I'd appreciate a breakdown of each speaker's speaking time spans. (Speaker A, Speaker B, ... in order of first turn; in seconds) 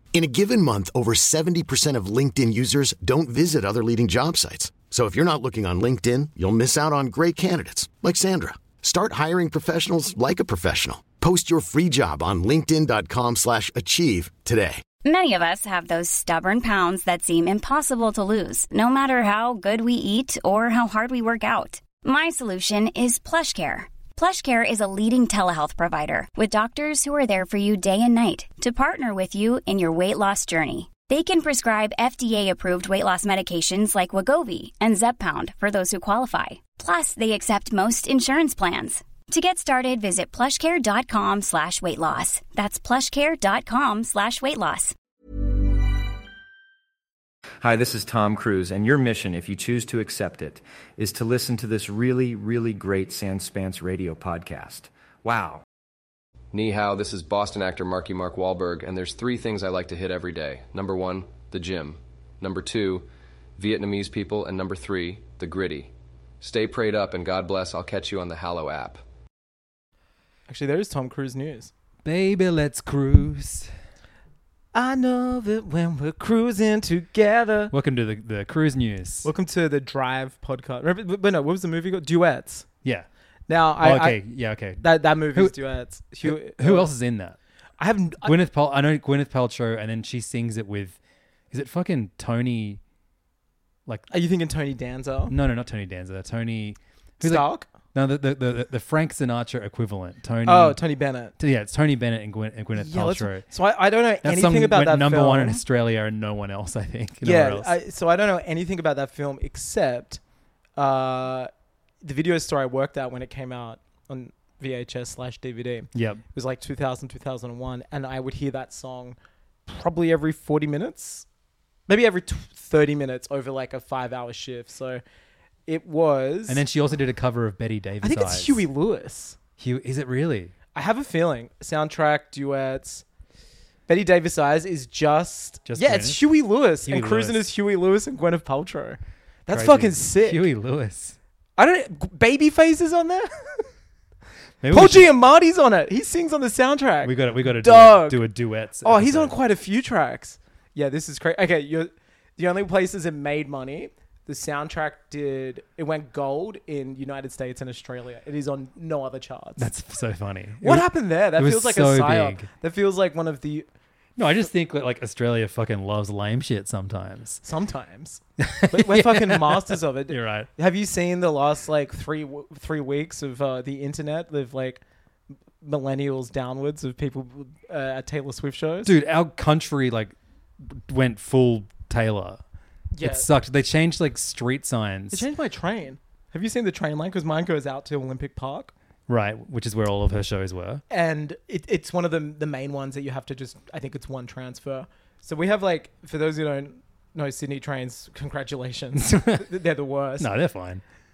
Speaker A: 0.1-14.8
Speaker B: 15.0-44.9
Speaker C: 47.6-55.6
Speaker D: 56.5-69.0
Speaker E: 70.5-71.7, 74.7-77.7, 79.2-82.7, 83.5-84.2, 84.8-86.9, 87.8-88.3, 94.1-95.3, 97.2-97.7, 100.4-101.3, 102.7-105.6, 107.2-110.2, 110.8-111.5, 112.0-121.2, 121.9-125.0, 125.7-126.6, 128.0-129.4, 130.7-133.0, 133.9-140.5, 141.6-143.7, 144.7-148.3, 148.8-159.7, 160.6-163.7, 167.4-174.8, 175.6-178.9, 182.9-183.3, 185.1-188.7, 190.9-200.3
Speaker F: 72.0-73.7, 77.7-79.3, 83.8-85.6, 86.2-87.4, 88.2-91.0, 91.5-92.8, 95.3-100.8, 101.4-103.5, 104.2-107.8, 115.9-116.2, 126.5-128.6, 129.6-130.5, 135.7-136.2, 136.8-137.4, 139.5-141.2, 144.6-145.1, 147.0-149.4, 159.6-162.5, 164.2-167.4, 168.4-170.5, 178.8-182.4, 183.0-185.3, 189.1-190.8, 199.0-199.4, 200.2-200.8